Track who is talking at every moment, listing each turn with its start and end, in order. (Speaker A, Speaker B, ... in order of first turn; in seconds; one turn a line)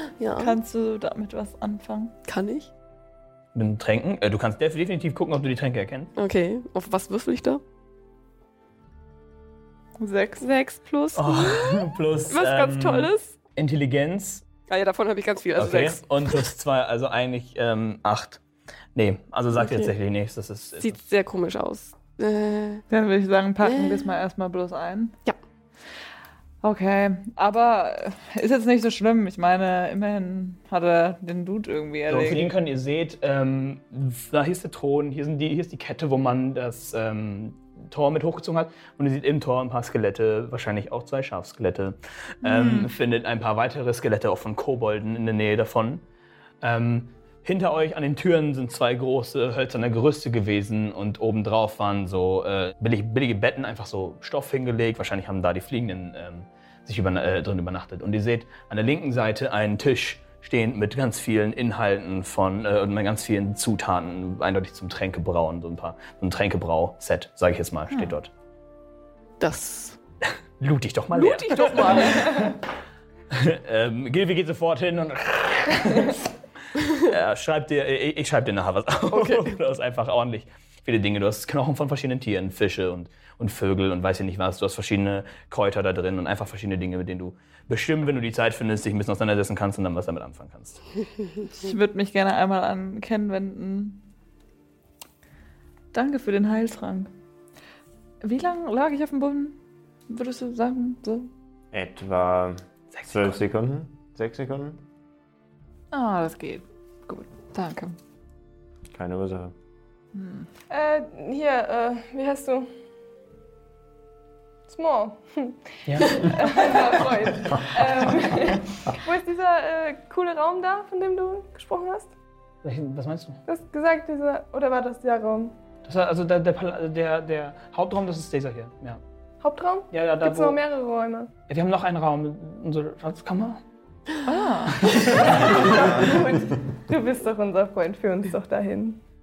Speaker A: 0.2-0.6
Speaker B: 0.4-2.1
Speaker A: 2.3-2.7
Speaker C: 3.5-6.1
Speaker A: 6.2-7.6
Speaker B: 10.0-10.5
Speaker A: 10.4-13.3
Speaker C: 11.2-14.4
Speaker A: 14.7-16.0
Speaker C: 15.6-18.4
Speaker C: 18.9-21.0
Speaker A: 19.6-19.9
Speaker A: 20.8-22.9
Speaker B: 22.9-25.1
Speaker A: 23.6-24.1
Speaker B: 26.6-32.5
Speaker C: 32.1-46.0
Speaker B: 42.4-42.9
Speaker C: 46.6-68.3
Speaker A: 69.4-70.0
Speaker C: 70.6-72.6
Speaker A: 71.1-72.6
Speaker C: 73.3-90.8
Speaker A: 79.1-79.5
Speaker B: 91.5-94.0
Speaker B: 95.9-97.1
Speaker B: 98.2-99.6
Speaker B: 100.1-101.3
Speaker D: 101.7-104.8
Speaker C: 103.0-103.4
Speaker B: 105.9-108.0
Speaker D: 108.9-109.5
Speaker B: 110.2-110.5
Speaker E: 110.7-112.7
Speaker E: 114.7-122.1
Speaker C: 115.9-116.6
Speaker C: 122.6-123.4
Speaker E: 123.5-125.5
Speaker C: 125.8-129.0
Speaker E: 129.4-131.3
Speaker C: 129.9-130.6
Speaker C: 131.5-133.6
Speaker B: 134.2-135.0
Speaker C: 134.8-135.7
Speaker E: 135.0-139.0